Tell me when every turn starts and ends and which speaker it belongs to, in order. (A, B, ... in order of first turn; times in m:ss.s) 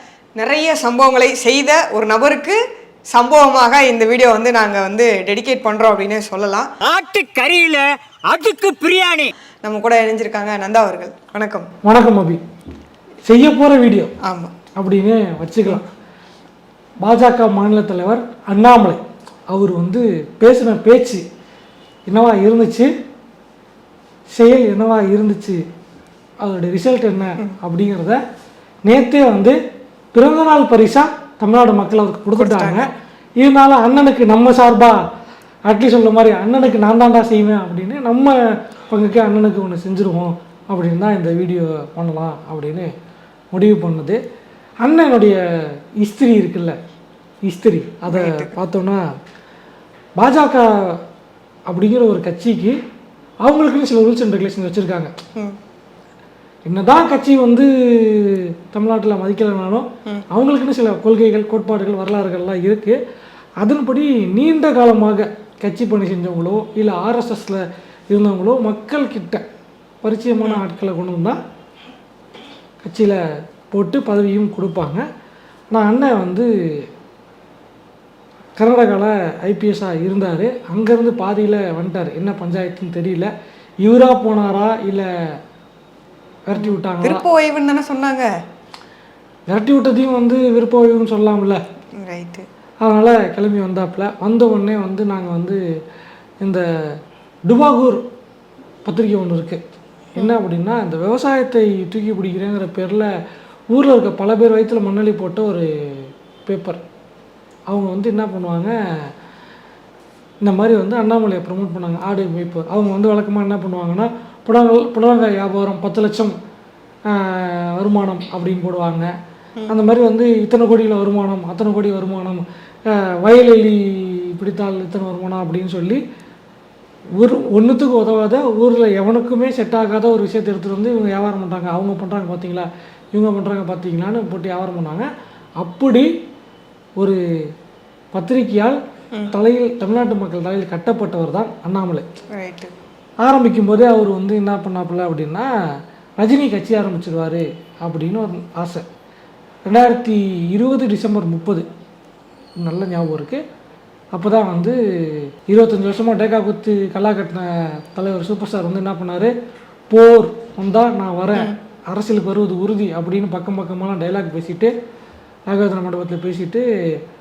0:00.4-0:02.6 A
0:03.1-0:06.7 A
0:06.8-0:09.3 B
0:09.6-0:11.7 A
0:11.8-0:12.4 C
0:13.2-0:14.2 C
0:14.2-0:14.5 A
0:14.8-0:15.9 C
0:17.0-0:19.0 C
0:19.5-0:21.2 C
0:22.1-0:22.9 C
0:24.3-0:25.6 C
0:26.4-0:28.2 C
0:28.8-0:29.6 C
0:30.1-0:32.9 C
0:32.4-0:32.9 A
0:33.4-0:35.0 C
0:35.7-0:42.9 C
0:43.5-0:44.2 C
0:44.8-0:46.8 C
0:47.4-0:49.0 C
0:48.1-0:48.5 A
0:50.2-0:51.0 C
0:51.7-0:52.8 C
0:53.4-0:55.2 C
0:56.7-1:03.0 C
1:03.6-1:09.4 C
1:10.0-1:11.4 C
1:12.8-1:15.0 C
1:15.7-1:16.9 C
1:18.6-1:23.3 C
1:23.8-1:25.4 C
1:26.5-1:27.2 C
1:26.6-1:28.3 A
1:29.5-1:31.6 C
1:32.0-1:32.4 A
1:32.8-1:35.6 C
1:36.4-1:38.0 C
1:38.8-1:39.6 C
1:40.2-1:43.1 C
1:43.7-1:46.8 C
1:47.7-1:49.1 C
1:50.4-1:56.4 C
1:57.1-1:59.1 C
1:59.7-2:06.0 C
2:07.2-2:15.1 C
2:15.6-2:16.1 C
2:18.1-2:22.1 C
2:22.3-2:22.7 A
2:23.2-2:25.5 C
2:26.2-2:28.9 C
2:29.7-2:31.7 C
2:32.6-2:33.4 C
2:34.1-2:39.3 C
2:39.9-2:44.7 C
2:45.5-2:47.0 C